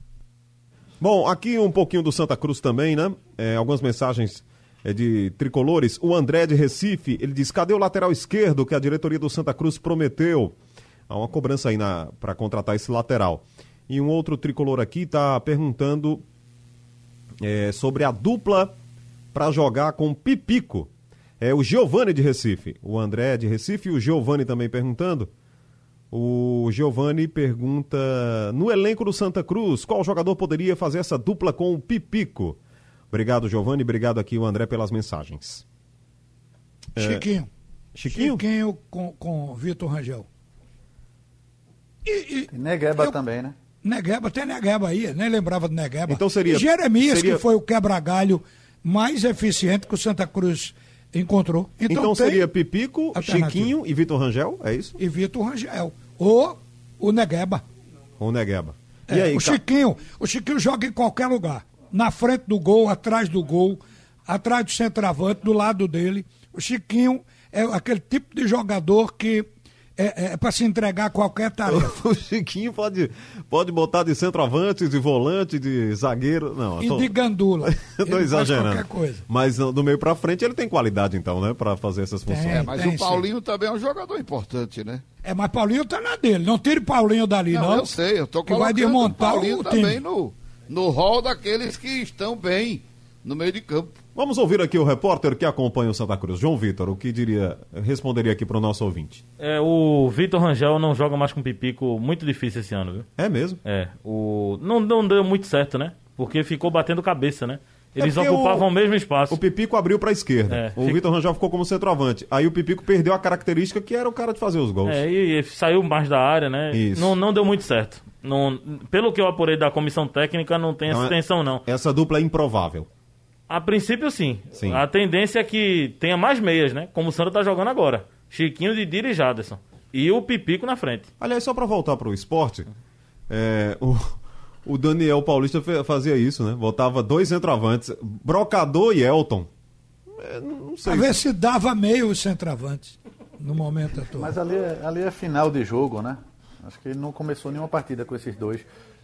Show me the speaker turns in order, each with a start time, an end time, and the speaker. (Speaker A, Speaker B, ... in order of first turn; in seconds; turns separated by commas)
Speaker A: 1.0-10.6, Speaker A: 11.1-16.2, Speaker A: 17.4-18.7, Speaker A: 19.3-25.3, Speaker A: 26.1-32.6, Speaker A: 33.1-35.6, Speaker A: 36.9-37.3, Speaker B: 36.9-37.5, Speaker A: 37.9-38.4, Speaker B: 38.1-40.3, Speaker B: 42.0-43.1, Speaker C: 42.5-43.5, Speaker B: 43.8-52.5, Speaker A: 46.1-47.4, Speaker A: 51.9-55.0, Speaker B: 53.1-53.7, Speaker B: 55.0-57.6, Speaker A: 58.2-59.6, Speaker B: 59.1-69.5, Speaker B: 70.0-71.9, Speaker A: 71.7-82.8, Speaker B: 76.8-79.2, Speaker B: 82.3-83.2, Speaker D: 82.5-85.0, Speaker B: 85.2-87.9, Speaker D: 87.5-94.0, Speaker B: 88.4-90.0, Speaker A: 94.1-99.2, Speaker E: 99.4-103.1, Speaker A: 103.2-103.6, Speaker E: 103.6-109.4, Speaker A: 108.0-108.7, Speaker A: 109.3-115.0, Speaker E: 110.5-111.0, Speaker E: 114.8-121.6, Speaker A: 116.7-117.1, Speaker A: 120.9-122.9, Speaker E: 123.5-131.1, Speaker A: 124.5-124.8, Speaker A: 131.2-132.7, Speaker A: 133.3-139.5, Speaker A: 140.1-141.2, Speaker B: 140.8-144.3, Speaker C: 144.2-148.6